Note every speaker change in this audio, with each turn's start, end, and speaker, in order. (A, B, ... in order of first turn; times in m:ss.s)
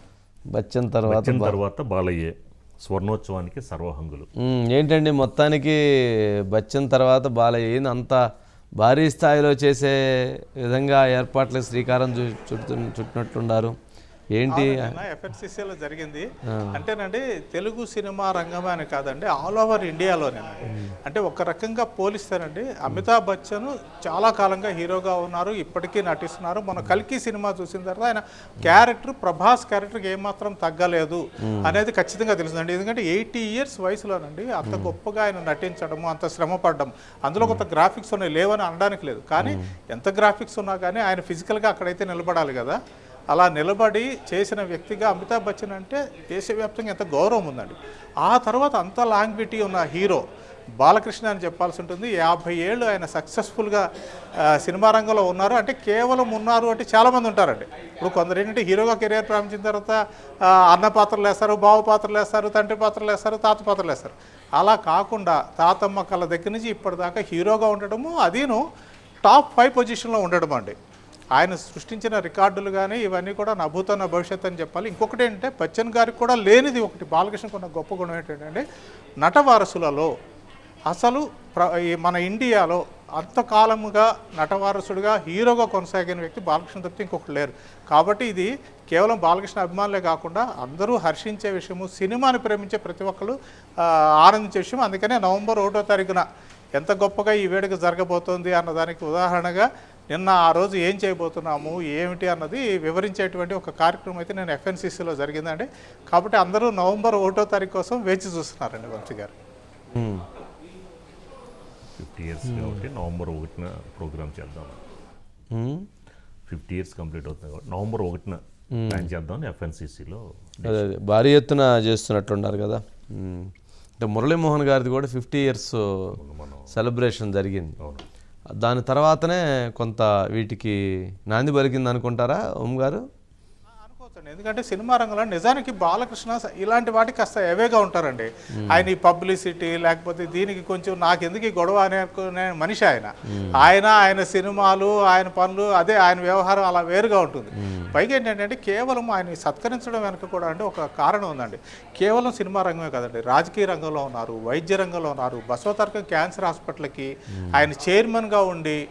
0:00.5-0:01.6 A
0:01.1-0:04.3 B
0:04.4-0:05.8 A
0:06.5-0:08.2 A
0:08.8-0:10.0 A
0:10.6-0:13.7 A
0:14.4-0:14.9 A
0:14.5-0:20.5 C
0:16.5-0:16.8 A
0:21.0-0:42.8 C
0:31.5-0:31.8 A
0:34.6-0:34.9 A
0:39.4-0:39.7 A
0:43.3-0:50.2 C
0:50.8-0:53.8 C
0:54.5-1:00.0 C
1:00.7-1:08.6 C
1:09.2-1:10.7 C
1:11.4-1:18.6 C
1:19.2-1:20.1 C
1:20.9-1:36.2 C
1:36.8-1:49.3 C
1:49.9-1:50.2 A
1:52.0-1:54.8 B
1:52.4-1:52.8 A
1:55.5-1:55.9 A
1:56.5-2:00.8 B
1:58.8-1:59.1 A
2:00.6-2:06.1 A
2:06.2-2:06.7 B
2:06.7-2:07.7 A
2:07.8-2:08.0 B
2:08.5-2:10.8 A
2:11.3-2:13.0 A
2:13.8-2:38.8 C
2:18.6-2:18.9 A
2:23.3-2:23.6 A
2:27.6-2:27.9 A
2:37.4-2:37.7 A